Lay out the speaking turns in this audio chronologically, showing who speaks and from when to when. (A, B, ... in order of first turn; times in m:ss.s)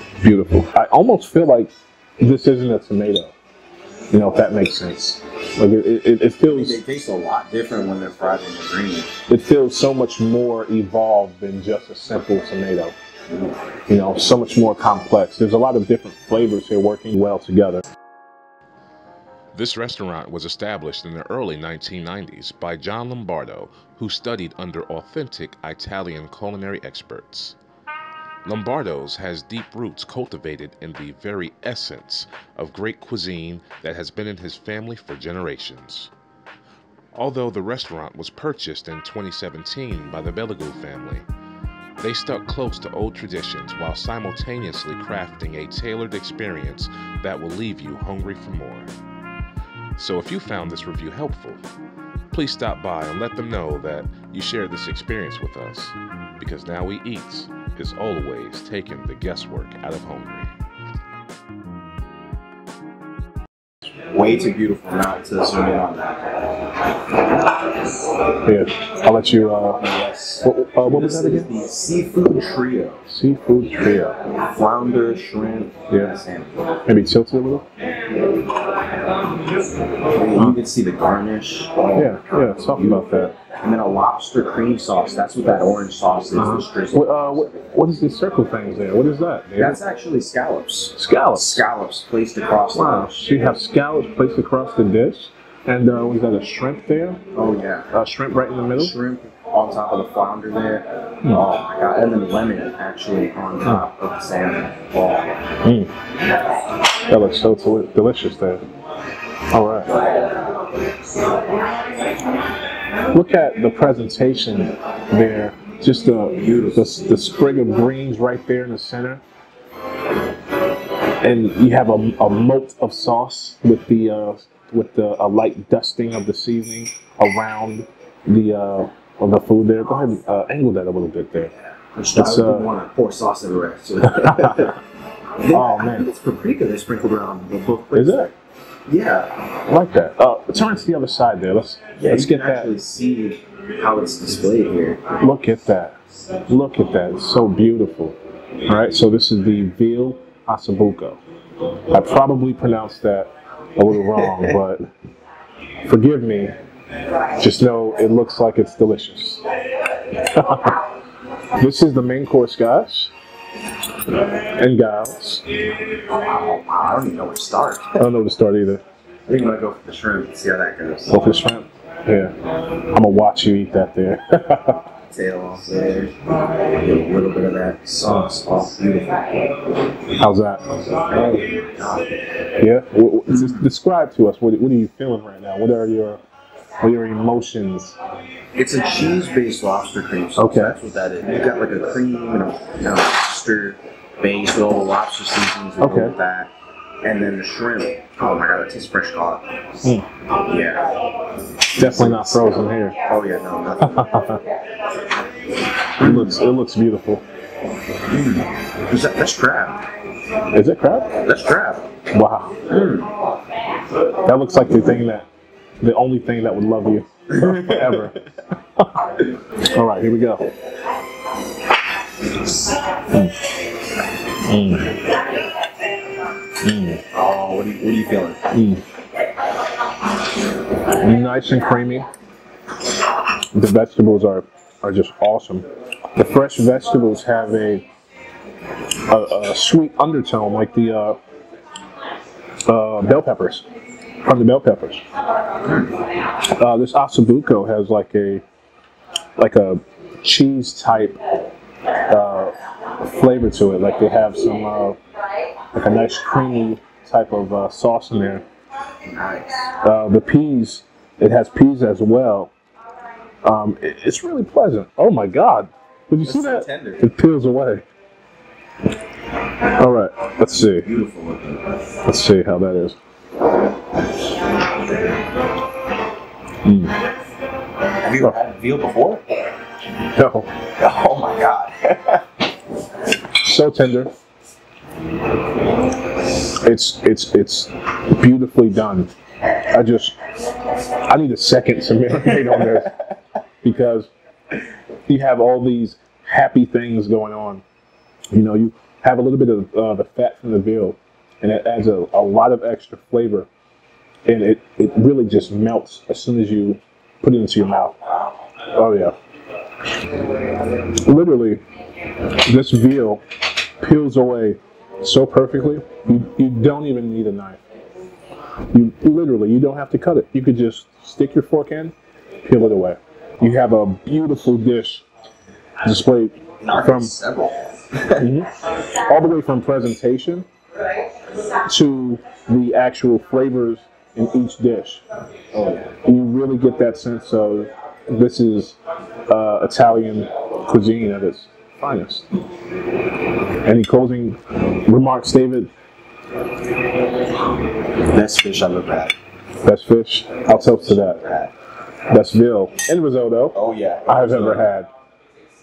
0:00.2-0:03.3 A
0:04.1-0:06.8 A
0:06.5-0:09.1 B
0:09.3-0:13.0 A
0:13.3-0:13.6 B
0:13.9-0:17.8 A
0:19.5-0:27.6 C
0:28.4-0:36.1 C
0:37.1-0:41.2 C
0:42.0-0:48.9 C
0:50.0-0:51.6 C
0:52.3-1:00.5 C
1:04.1-1:06.4 B
1:08.4-1:09.8 A
1:09.8-1:13.0 B
1:10.4-1:11.5 A
1:13.1-1:14.2 A
1:14.5-1:16.6 B
1:15.9-1:16.1 A
1:16.8-1:17.6 A
1:20.1-1:27.8 B
1:21.9-1:23.3 A
1:26.3-1:29.8 A
1:29.6-1:33.3 B
1:31.0-1:31.6 A
1:32.7-1:37.2 A
1:37.3-1:37.9 B
1:37.9-1:39.0 A
1:38.7-1:45.4 B
1:45.6-1:45.9 A
1:47.1-1:48.6 A
1:49.5-1:49.9 A
1:49.8-1:50.5 B
1:53.1-1:59.2 A
1:56.4-1:56.8 B
2:01.2-2:11.5 A
2:11.9-2:14.7 B
2:12.2-2:12.7 A
2:15.4-2:18.3 B
2:15.5-2:16.1 A
2:17.9-2:18.3 A
2:18.9-2:19.4 B
2:19.7-2:22.7 A
2:22.0-2:25.0 B
2:25.2-2:31.2 A
2:31.9-2:34.8 A
2:35.8-2:36.6 A
2:37.4-2:39.4 A
2:40.2-2:40.8 A
2:41.6-2:43.1 A
2:44.5-2:45.4 A
2:46.1-2:48.0 B
2:48.0-2:48.8 A
2:49.3-2:51.1 B
2:51.1-2:52.3 A
2:52.9-2:54.8 A
2:55.1-2:59.3 B
3:00.1-3:00.8 A
3:01.1-3:02.0 B
3:02.6-3:06.2 A
3:03.3-3:03.7 B
3:06.8-3:08.0 A
3:08.5-3:16.5 B
3:10.4-3:10.8 A
3:15.8-3:16.1 A
3:17.0-3:19.4 B
3:20.4-3:20.9 B
3:21.8-3:23.0 A
3:21.8-3:24.1 B
3:23.8-3:24.4 A
3:26.0-3:27.2 A
3:26.0-3:26.3 B
3:28.1-3:29.8 B
3:30.5-3:31.2 A
3:31.2-3:31.8 B
3:32.1-3:32.6 A
3:32.7-3:33.1 B
3:34.2-3:35.3 A
3:35.8-3:38.2 A
3:39.6-3:40.5 A
3:43.1-3:43.4 A
3:44.4-3:45.0 A
3:46.6-3:47.0 A
3:47.1-3:48.4 B
3:48.5-3:48.8 A
3:50.9-3:52.1 A
3:53.5-3:57.8 A
3:59.1-4:01.2 A
4:02.6-4:03.7 A
4:04.2-4:05.0 A
4:05.6-4:05.9 B
4:06.5-4:08.4 A
4:09.4-4:11.2 A
4:12.0-4:15.0 A
4:15.7-4:18.4 A
4:19.1-4:19.7 B
4:19.8-4:22.5 A
4:23.4-4:27.8 A
4:26.2-4:27.0 B
4:29.6-4:30.9 A
4:30.6-4:31.6 B
4:32.0-4:33.0 A
4:36.6-4:37.0 A
4:38.0-4:39.2 B
4:40.1-4:40.5 A
4:40.8-4:42.2 B
4:43.4-4:44.1 A
4:46.6-4:49.1 A
4:49.7-4:50.2 A
4:50.9-4:53.0 A
4:53.6-4:54.1 A
4:55.1-4:57.6 A
4:58.3-5:03.5 A
5:04.2-5:08.0 A
5:08.7-5:09.1 A
5:10.9-5:11.6 A
5:12.4-5:13.2 A
5:13.8-5:17.6 A
5:18.7-5:25.0 A
5:25.8-5:27.2 A
5:26.6-5:28.2 B
5:28.2-5:30.5 A
5:31.6-5:35.0 A
5:35.6-5:42.3 A
5:43.6-5:45.7 A
5:48.0-5:49.1 B
5:49.6-5:51.2 A
5:50.4-5:51.5 B
5:52.1-5:54.9 A
5:53.5-5:54.7 B